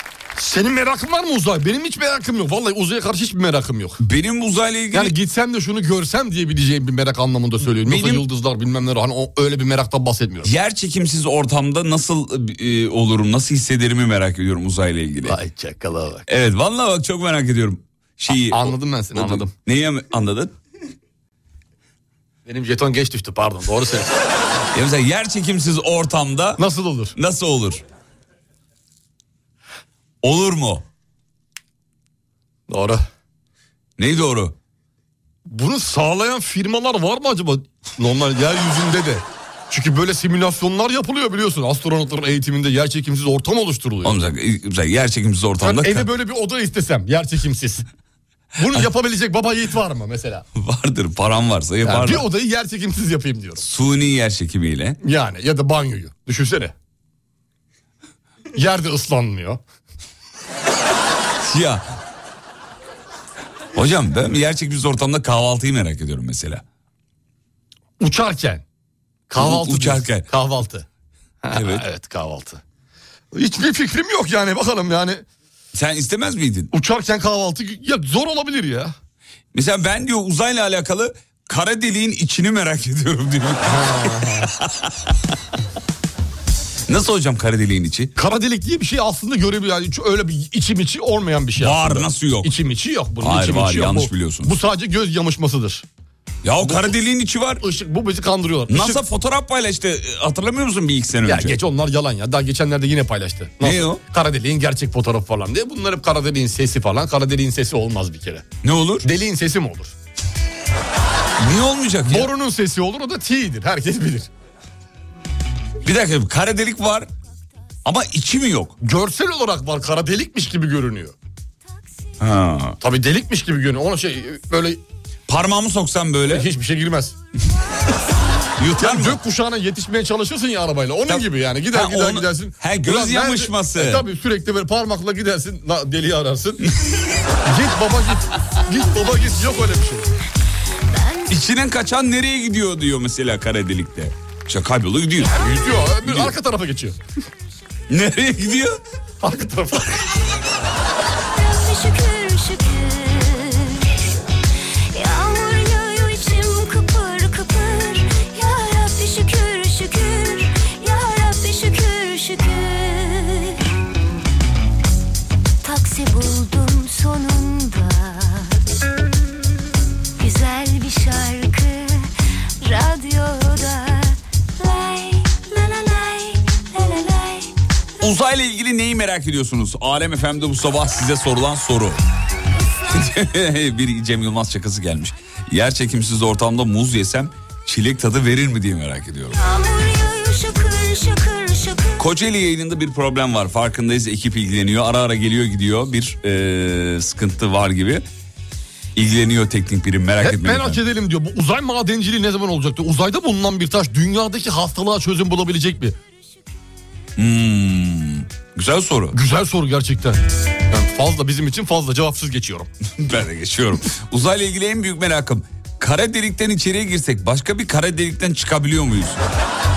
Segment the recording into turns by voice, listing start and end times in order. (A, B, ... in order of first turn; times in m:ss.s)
0:00.4-0:04.0 A
0:04.0-0:05.2 B
0:04.9-0:10.5 A
0:07.7-0:08.2 B
0:10.4-0:15.4 B
0:15.2-0:16.3 A
0:16.3-0:20.5 B
0:18.5-0:19.5 A
0:22.5-0:24.1 A
0:24.7-0:26.6 B
0:26.6-0:27.2 A
0:27.2-0:27.8 B
0:30.2-0:30.8 B
0:32.7-0:33.0 A
0:34.0-0:34.6 B
0:35.5-0:44.2 A
0:44.0-0:46.1 B
0:45.6-0:47.9 A
0:48.6-0:50.4 A
0:50.6-0:52.3 B
0:51.8-0:53.6 A
0:53.6-0:55.0 B
0:55.0-0:56.7 A
0:58.5-0:59.6 A
1:01.4-1:01.8 B
1:03.8-1:06.6 B
1:08.0-1:08.6 A
1:09.3-1:10.9 A
1:09.4-1:10.3 B
1:11.4-1:12.6 A
1:11.5-1:11.8 B
1:13.3-1:15.2 A
1:15.7-1:16.7 B
1:16.7-1:18.9 A
1:19.5-1:24.9 B
1:23.6-1:24.5 A
1:26.9-1:28.1 B
1:28.2-1:35.8 A
1:31.6-1:32.5 B
1:33.2-1:34.5 B
1:36.4-1:37.6 B
1:36.6-1:37.0 A
1:37.6-1:39.0 A
1:38.7-1:41.6 B
1:41.3-1:48.5 A
1:43.6-1:44.0 B
1:48.6-1:49.1 B
1:49.0-1:50.0 A
1:51.4-1:52.3 B
1:52.1-1:54.3 A
1:55.8-1:57.1 B
1:57.8-1:58.8 B
1:58.8-2:01.2 A
2:02.2-2:02.8 B
2:02.8-2:04.8 A
2:05.3-2:06.5 B
2:06.3-2:07.2 A
2:08.6-2:09.2 B
2:08.8-2:16.6 A
2:11.1-2:14.0 B
2:17.4-2:20.1 A
2:20.9-2:21.3 C
2:21.3-2:25.3 B
2:25.2-2:27.0 A
2:26.0-2:26.3 B
2:27.9-2:28.8 B
2:29.2-2:30.0 A
2:31.3-2:34.0 C
2:34.9-2:43.6 C
2:45.6-2:48.6 C
2:50.2-2:52.1 C
2:52.6-2:57.5 C
2:58.0-3:02.0 B
3:02.6-3:03.1 C
3:02.9-3:09.4 B
3:09.3-3:12.0 C
3:12.0-3:18.0 B
3:19.0-3:20.8 B
3:20.2-3:26.0 A
3:27.2-3:29.2 B
3:29.1-3:32.7 A
3:33.0-3:39.2 B